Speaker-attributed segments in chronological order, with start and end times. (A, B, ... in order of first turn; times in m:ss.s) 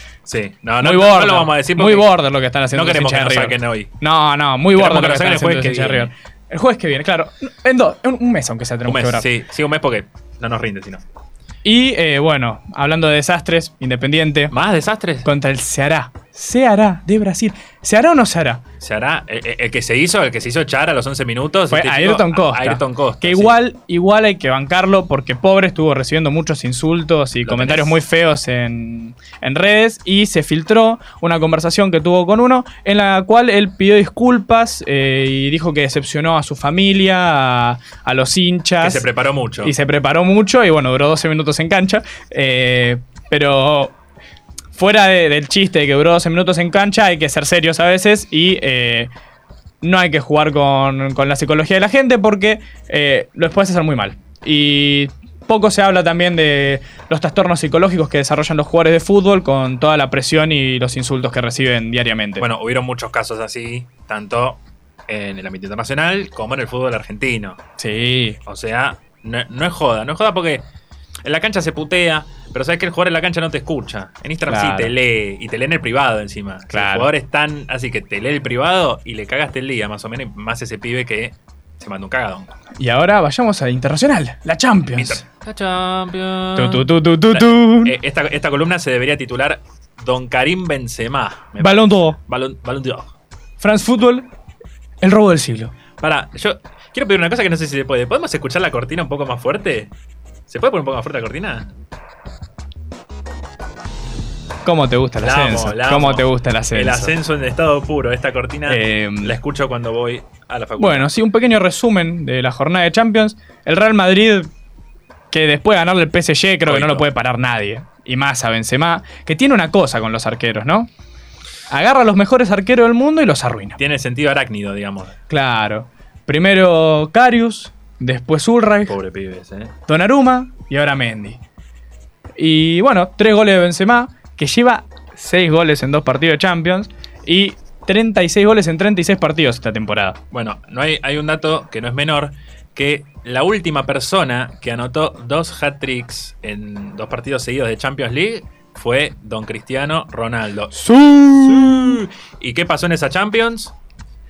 0:00.3-0:02.1 A
0:00.8-0:09.3 B
0:02.7-0:03.9 A
0:04.7-0:06.1 A
0:08.8-0:11.0 A
0:11.6-0:14.5 B
0:14.5-0:15.3 A
0:15.2-0:18.6 B
0:18.8-0:23.6 A
0:21.7-0:39.1 B
0:27.4-0:28.0 A
0:38.8-0:39.7 A
0:39.6-0:43.9 B
0:44.7-0:49.1 B
0:49.8-1:02.5 B
1:02.4-1:07.6 A
1:07.8-1:08.4 B
1:08.4-1:10.6 A
1:11.2-1:22.5 A
1:14.5-1:14.9 B
1:16.7-1:17.1 B
1:22.8-1:25.2 B
1:24.9-1:33.1 A
1:26.6-1:28.0 B
1:31.6-1:32.2 B
1:33.6-1:34.2 B
1:35.0-1:35.7 B
1:36.0-1:39.9 A
1:40.5-1:41.7 A
1:44.6-1:47.1 B
1:45.2-1:51.1 A
1:48.7-1:49.4 B
1:50.8-1:54.5 B
1:55.3-2:00.9 B
1:56.6-1:57.0 A
2:01.7-2:03.8 B
2:03.8-2:05.1 A
2:05.3-2:09.0 B
2:08.8-2:09.7 A
2:09.9-2:11.4 B
2:12.4-2:20.2 B
2:20.3-2:33.7 A
2:30.7-2:32.0 B